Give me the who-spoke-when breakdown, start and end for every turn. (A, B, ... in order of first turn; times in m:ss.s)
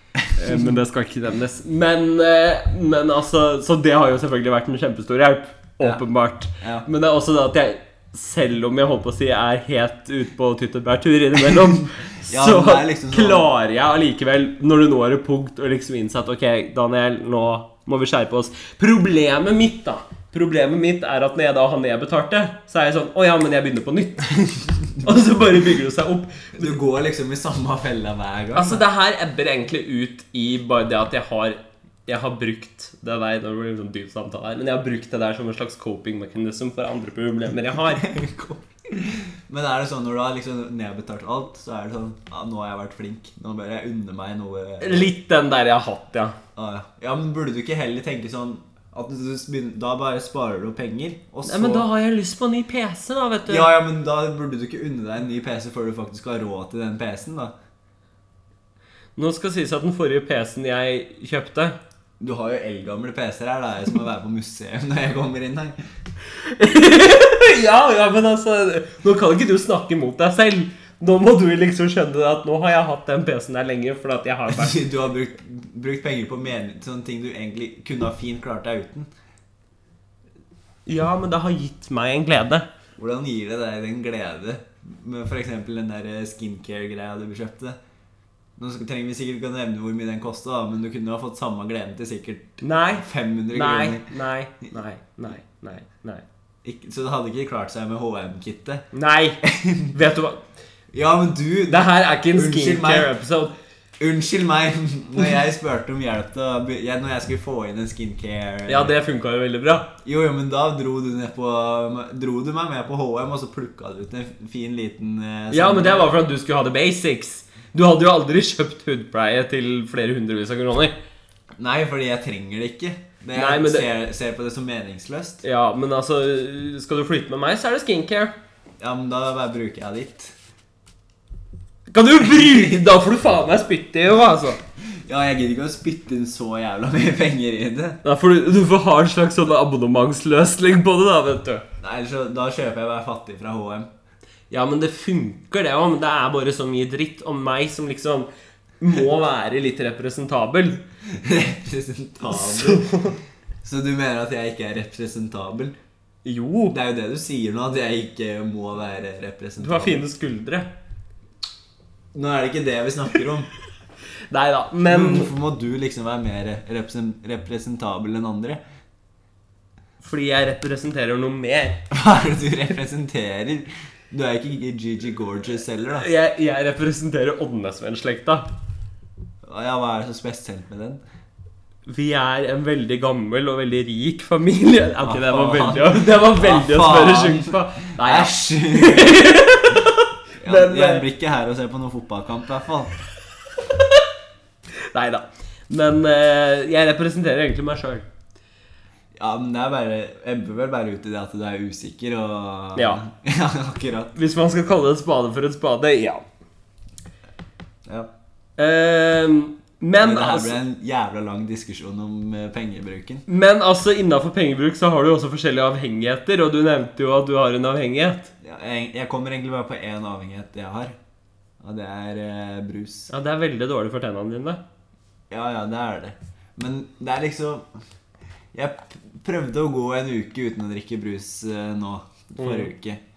0:00.3-0:26.7 A
0:06.6-0:06.9 B
0:12.2-0:13.5 B
0:26.6-0:28.8 B
0:28.5-0:38.1 A
0:37.9-0:45.1 B
0:44.8-0:46.4 A
0:46.6-0:51.9 B
0:51.4-0:53.7 A
0:53.4-0:57.5 B
0:59.2-1:01.8 A
1:02.2-1:05.8 B
1:06.4-1:14.8 A
1:14.5-1:19.1 B
1:20.8-1:22.7 A
1:23.0-1:27.8 B
1:28.6-1:34.1 B
1:32.6-1:36.2 A
1:36.6-1:38.8 B
1:38.9-1:40.4 A
1:39.4-1:40.0 B
1:40.9-1:43.2 B
1:41.7-1:43.5 A
1:44.0-1:48.9 B
1:48.7-1:49.9 A
1:50.0-1:56.1 B
1:55.5-2:00.9 A
2:01.6-2:05.4 B
2:03.3-2:03.9 A
2:05.4-2:08.3 A
2:08.8-2:10.3 B
2:11.9-2:14.6 A
2:12.4-2:12.7 B
2:14.9-2:18.0 B
2:18.0-2:21.6 A
2:21.8-2:23.9 B
2:24.5-2:28.3 A
2:28.8-2:30.8 A
2:31.0-2:33.0 B
2:32.3-2:33.2 A
2:33.6-2:35.8 B
2:36.2-2:36.8 A
2:36.7-2:40.0 B
2:39.6-2:40.7 A
2:42.1-2:43.5 B
2:44.3-2:45.3 A
2:44.9-2:48.6 B
2:50.0-2:51.8 A
2:51.9-2:56.1 B
2:55.9-2:58.4 A
2:59.4-3:01.0 B
3:01.9-3:11.0 A
3:05.0-3:09.3 B
3:10.4-3:12.9 B
3:14.9-3:18.0 A
3:19.2-3:24.1 B
3:22.8-3:23.0 A
3:24.1-3:26.2 A
3:28.6-3:30.6 A
3:30.0-3:33.2 B
3:33.3-3:38.3 A
3:38.4-3:40.9 B
3:41.6-3:43.1 B
3:43.1-3:44.6 A
3:45.3-3:47.7 B
3:48.5-3:53.0 B
3:52.4-3:52.7 A